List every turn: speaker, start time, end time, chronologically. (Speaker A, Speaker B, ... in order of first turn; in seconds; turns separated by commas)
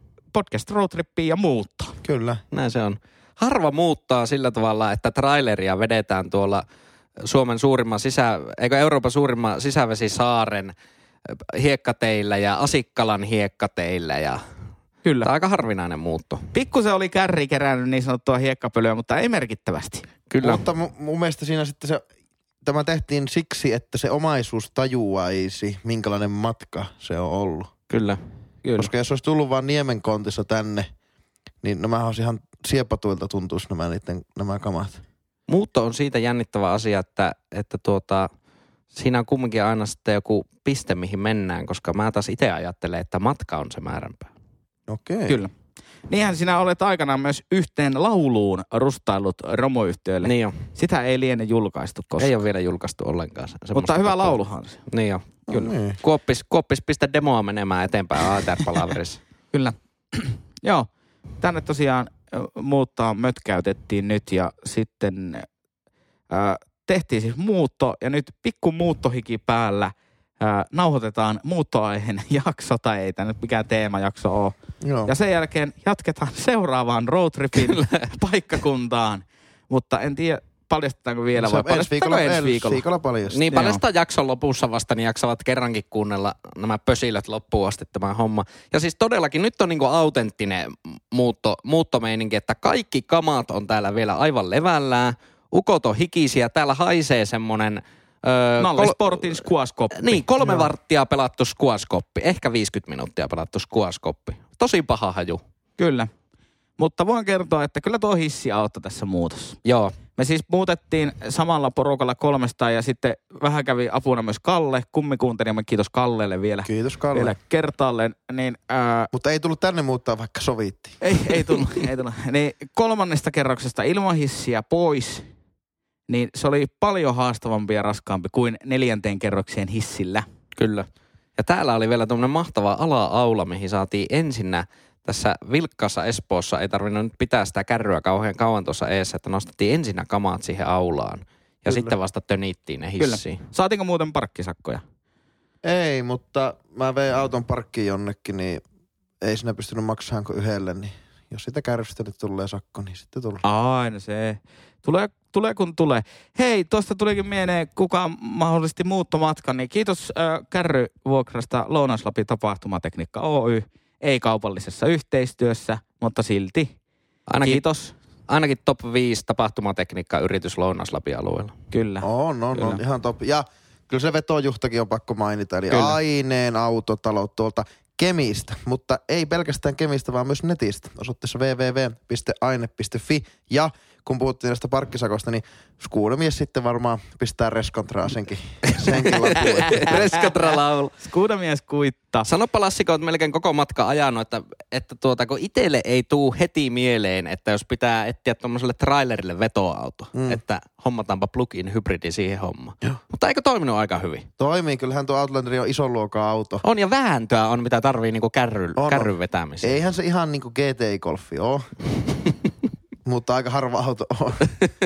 Speaker A: 0.3-2.0, Speaker B: 2.0-2.4, Speaker C: 2.5-6.6, Speaker C: 7.2-10.7, Speaker C: 11.3-14.4, Speaker A: 15.0-15.3, Speaker C: 15.2-16.5, Speaker A: 16.5-20.1, Speaker C: 20.3-20.6, Speaker B: 20.4-22.0, Speaker B: 22.6-27.7, Speaker C: 27.9-28.2, Speaker A: 28.6-28.9, Speaker B: 28.8-30.9, Speaker B: 31.6-35.0, Speaker C: 35.5-38.3, Speaker C: 38.9-44.3, Speaker B: 44.9-45.4, Speaker A: 45.3-45.5, Speaker A: 46.1-52.3, Speaker C: 50.2-50.6, Speaker C: 52.2-55.3, Speaker A: 53.7-54.8, Speaker B: 55.5-56.0, Speaker C: 56.0-59.2, Speaker A: 59.5-60.9, Speaker A: 61.4-65.5, Speaker A: 66.3-82.8, Speaker B: 74.8-75.1, Speaker C: 77.5-77.9, Speaker B: 81.3-83.4, Speaker C: 83.3-99.4, Speaker A: 83.5-83.8, Speaker A: 98.6-100.7, Speaker C: 99.9-105.4, Speaker A: 105.8-106.1, Speaker A: 106.8-109.6, Speaker C: 109.6-109.9, Speaker A: 110.2-119.1, Speaker B: 116.6-117.3, Speaker B: 119.1-121.0, Speaker A: 121.0-125.3, Speaker A: 126.1-130.2, Speaker C: 130.6-143.4, Speaker B: 141.7-141.9, Speaker A: 143.0-144.8, Speaker B: 145.6-148.6, Speaker B: 149.2-153.4, Speaker A: 153.4-166.7, Speaker C: 167.3-167.6, Speaker A: 167.4-167.9, Speaker C: 168.3-171.6, Speaker A: 171.7-172.8, Speaker B: 172.0-190.0, Speaker A: 175.7-176.0, Speaker C: 188.7-191.0, Speaker A: 189.1-192.3, Speaker C: 192.2-204.3, Speaker B: 200.1-200.4, Speaker B: 204.4-206.6, Speaker C: 206.6-209.8, Speaker B: 208.8-211.7, Speaker B: 213.0-214.5